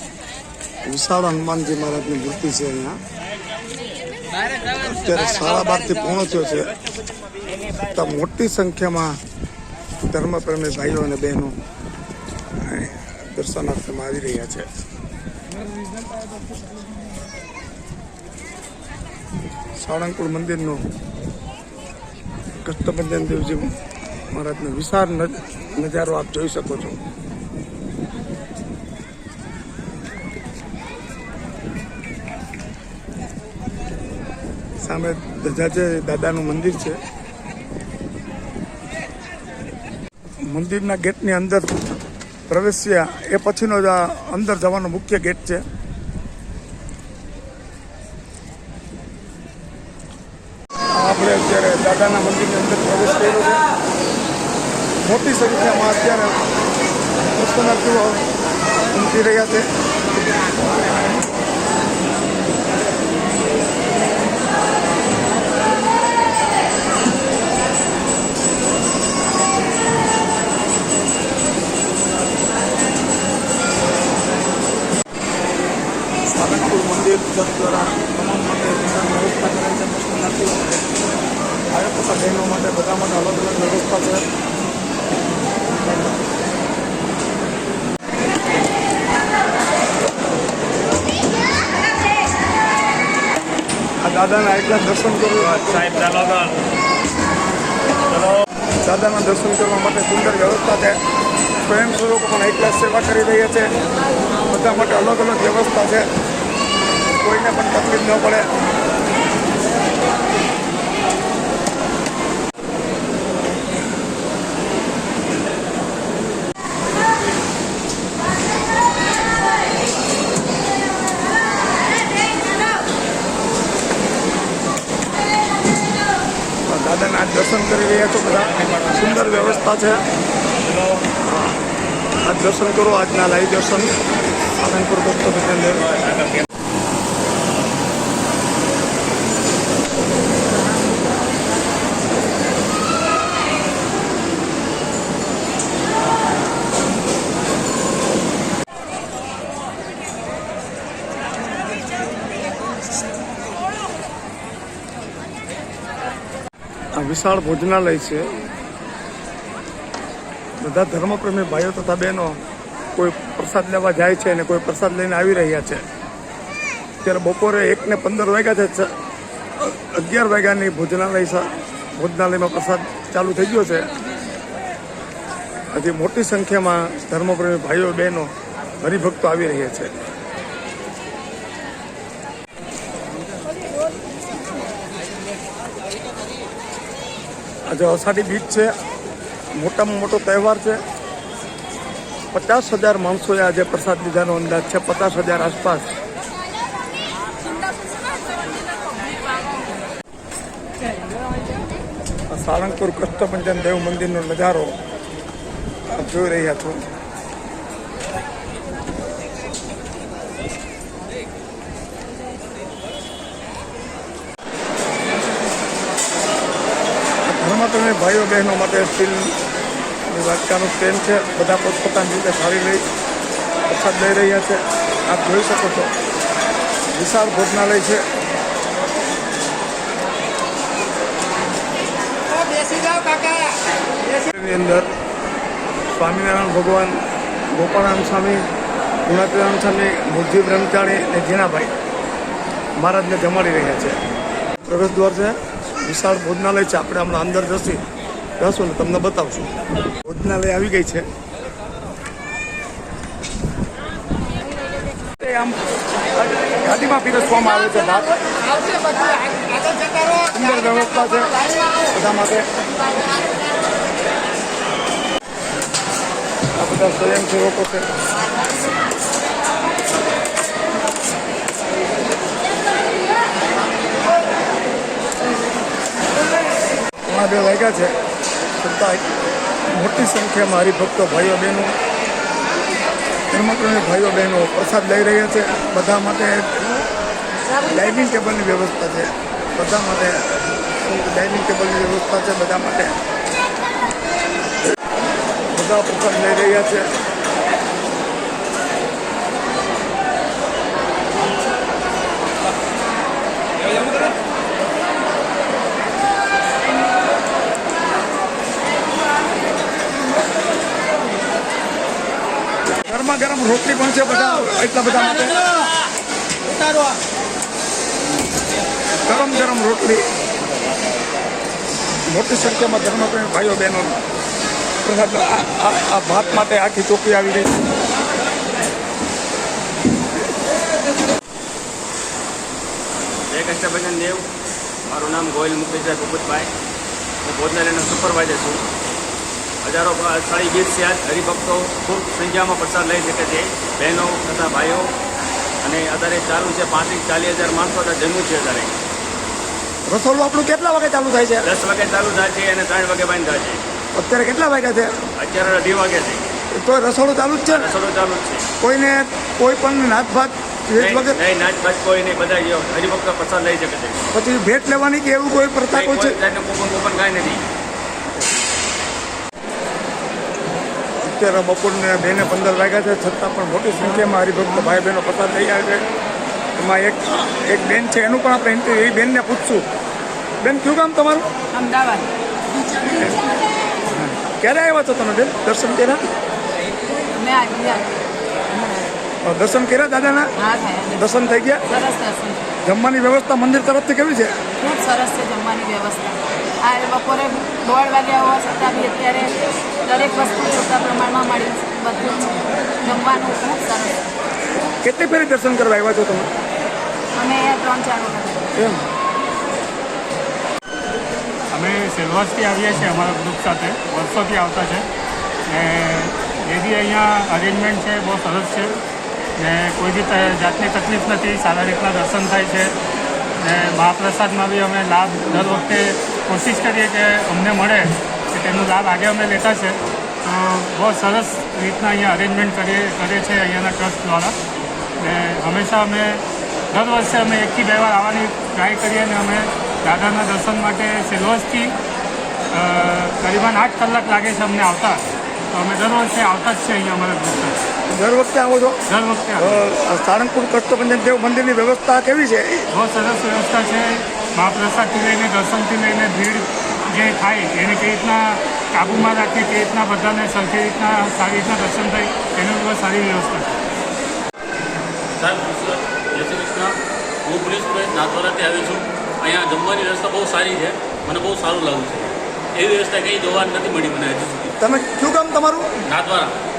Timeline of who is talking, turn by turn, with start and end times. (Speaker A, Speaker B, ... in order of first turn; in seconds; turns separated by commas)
Speaker A: 0.8-3.0, Speaker A: 4.8-6.7, Speaker A: 7.9-9.2, Speaker A: 10.1-11.6, Speaker A: 12.6-14.7, Speaker A: 19.8-20.8, Speaker A: 22.6-23.7, Speaker A: 24.3-27.0, Speaker A: 34.8-37.0, Speaker A: 40.5-41.7, Speaker A: 42.5-45.6, Speaker A: 50.9-53.6, Speaker A: 55.0-56.4, Speaker A: 57.3-58.2, Speaker A: 58.9-59.7, Speaker A: 76.3-80.9, Speaker A: 81.7-84.2, Speaker A: 94.0-95.9, Speaker B: 95.6-96.5, Speaker A: 98.8-101.0, Speaker A: 101.7-103.7, Speaker A: 104.5-106.1, Speaker A: 107.0-108.5, Speaker A: 126.7-130.0, Speaker A: 131.2-131.6, Speaker A: 132.2-133.9, Speaker A: 134.6-135.9, Speaker A: 156.9-158.3, Speaker A: 160.6-162.4, Speaker A: 162.9-165.8, Speaker A: 167.0-168.9, Speaker A: 169.6-173.8, Speaker A: 175.7-178.3, Speaker A: 178.8-179.9, Speaker A: 187.7-188.7, Speaker A: 189.5-190.8, Speaker A: 192.3-195.9, Speaker A: 202.3-204.8, Speaker A: 205.9-206.8, Speaker A: 217.3-219.3, Speaker A: 220.1-222.8, Speaker A: 223.7-225.9, Speaker A: 226.9-228.0, Speaker A: 234.2-234.9, Speaker A: 235.9-237.0, Speaker A: 237.5-238.4, Speaker A: 239.1-241.7, Speaker A: 242.8-244.0, Speaker A: 244.6-247.8, Speaker A: 248.4-249.5, Speaker A: 250.0-251.0, Speaker A: 255.2-255.6, Speaker A: 256.1-258.2, Speaker A: 260.2-261.4, Speaker A: 261.9-262.5, Speaker A: 266.6-267.9, Speaker A: 277.1-277.9, Speaker A: 278.6-279.1, Speaker A: 279.7-281.7, Speaker A: 283.3-286.7, Speaker A: 287.6-290.2, Speaker A: 290.8-292.9, Speaker A: 295.5-296.9, Speaker A: 312.9-315.5, Speaker A: 319.0-320.0, Speaker A: 322.1-324.0, Speaker A: 324.8-327.5, Speaker B: 333.3-334.2, Speaker B: 334.9-336.5, Speaker B: 337.2-338.6, Speaker B: 339.6-344.9, Speaker B: 345.6-348.7, Speaker A: 349.9-351.5, Speaker B: 351.4-353.6, Speaker A: 353.9-354.9, Speaker B: 355.2-356.3, Speaker A: 356.5-357.7, Speaker B: 357.5-358.4, Speaker A: 358.6-361.2, Speaker B: 360.8-364.0, Speaker A: 364.1-366.2, Speaker B: 365.7-367.4, Speaker A: 371.0-375.8, Speaker A: 376.6-379.6, Speaker A: 380.4-381.3, Speaker C: 381.5-382.1, Speaker A: 383.9-386.0, Speaker C: 387.2-388.0, Speaker A: 389.2-390.3, Speaker C: 390.4-391.0, Speaker A: 390.9-391.6, Speaker C: 391.7-392.4, Speaker A: 392.6-394.4, Speaker C: 394.6-399.3, Speaker C: 399.9-404.0, Speaker A: 404.8-406.3, Speaker C: 407.1-408.4, Speaker A: 408.5-408.8, Speaker D: 411.5-414.9, Speaker D: 415.5-418.8, Speaker D: 419.4-422.7, Speaker D: 423.4-434.3, Speaker D: 435.0-441.7, Speaker D: 442.5-447.6, Speaker A: 447.9-448.8, Speaker D: 448.9-449.6, Speaker A: 449.4-452.7, Speaker D: 452.7-463.6, Speaker E: 465.2-466.7, Speaker E: 467.2-474.6, Speaker A: 474.6-475.7, Speaker E: 475.9-476.3